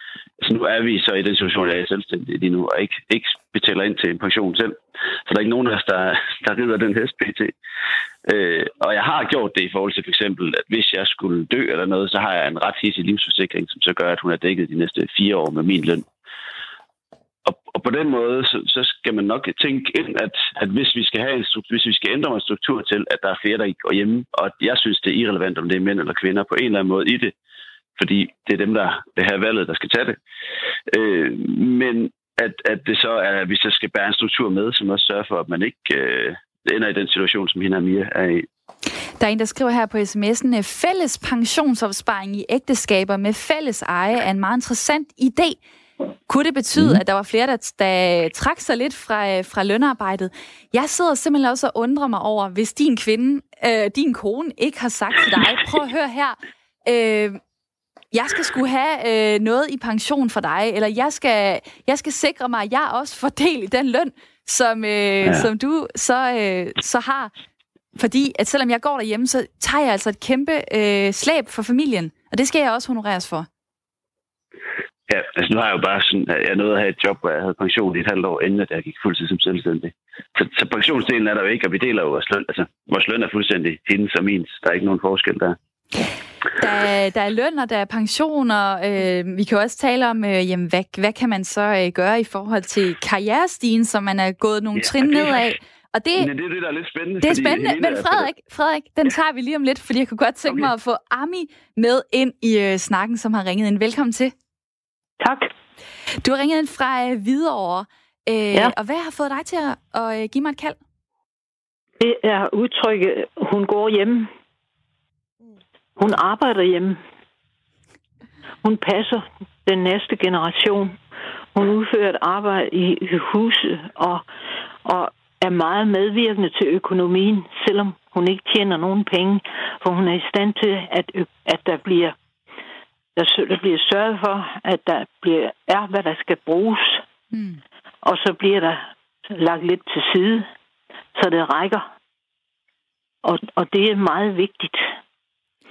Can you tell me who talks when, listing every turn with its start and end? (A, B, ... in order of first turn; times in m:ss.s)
0:00.4-0:07.5 A
0:08.2-0:16.0 A
0:17.4-0:27.3 A
0:28.0-0:30.2 A
0:30.9-0:38.5 A
0:39.2-0:45.6 B
0:46.3-0:57.4 B
0:58.1-1:07.3 B
1:08.0-1:13.5 B
1:15.1-1:25.6 A
1:26.6-1:36.3 B
1:34.7-1:35.4 A
1:36.2-1:38.3 A
1:37.2-1:44.3 B
1:45.2-1:45.5 C
1:46.2-1:50.8 B
1:52.0-1:54.3 C
1:56.0-1:57.0 C
1:58.6-2:01.0 C
2:01.5-2:04.2 C
2:04.8-2:12.2 C
2:13.2-2:17.0 C
2:17.3-2:17.6 B
2:18.0-2:20.5 C
2:21.2-2:21.9 C
2:23.2-2:24.9 C